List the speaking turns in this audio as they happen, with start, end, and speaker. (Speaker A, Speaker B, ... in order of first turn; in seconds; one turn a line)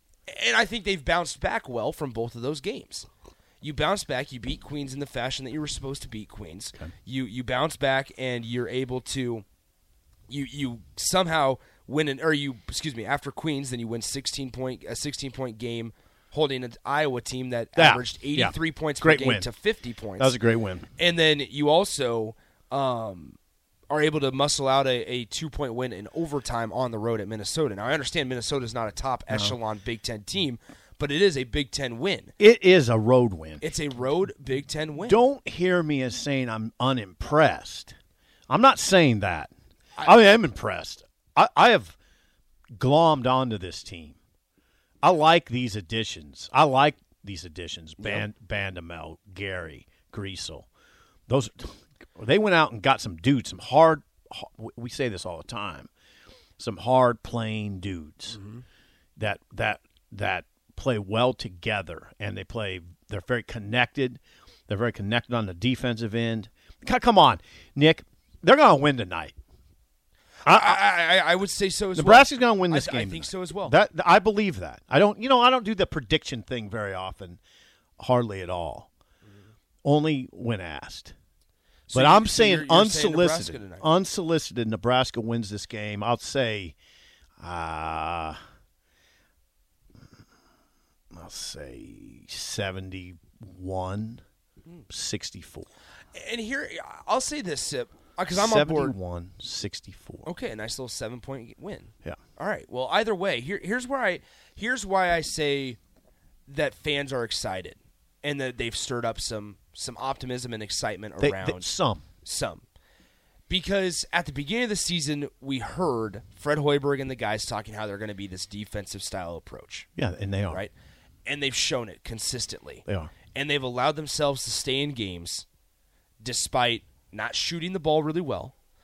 Speaker A: 0.3-3.1
Speaker A: 3.6-9.4
Speaker A: 10.3-20.3
Speaker B: 17.8-19.5
Speaker B: 20.2-20.9
Speaker A: 21.0-23.4
Speaker A: 23.9-32.3
Speaker B: 29.3-29.6
Speaker B: 32.4-33.6
Speaker A: 33.6-35.2
Speaker B: 35.0-37.9
Speaker B: 38.5-42.0
Speaker B: 42.8-44.2
Speaker B: 45.0-50.7
Speaker A: 48.0-48.2
Speaker B: 51.3-55.9
Speaker B: 56.6-58.4
Speaker A: 58.3-58.6
Speaker B: 59.2-69.3
Speaker B: 70.5-70.8
Speaker A: 70.5-73.8
Speaker B: 71.9-77.4
Speaker B: 78.0-78.9
Speaker B: 79.8-81.1
Speaker A: 81.9-83.9
Speaker B: 81.9-86.7
Speaker B: 87.4-88.4
Speaker B: 91.1-94.2
Speaker B: 94.9-95.7
Speaker A: 96.1-99.0
Speaker B: 98.3-100.3
Speaker A: 100.2-105.8
Speaker A: 106.5-111.7
Speaker B: 111.2-112.0
Speaker A: 112.2-112.6
Speaker A: 113.5-119.9
Speaker B: 120.0-120.6
Speaker A: 121.2-125.5
Speaker B: 122.8-123.1
Speaker A: 126.2-128.5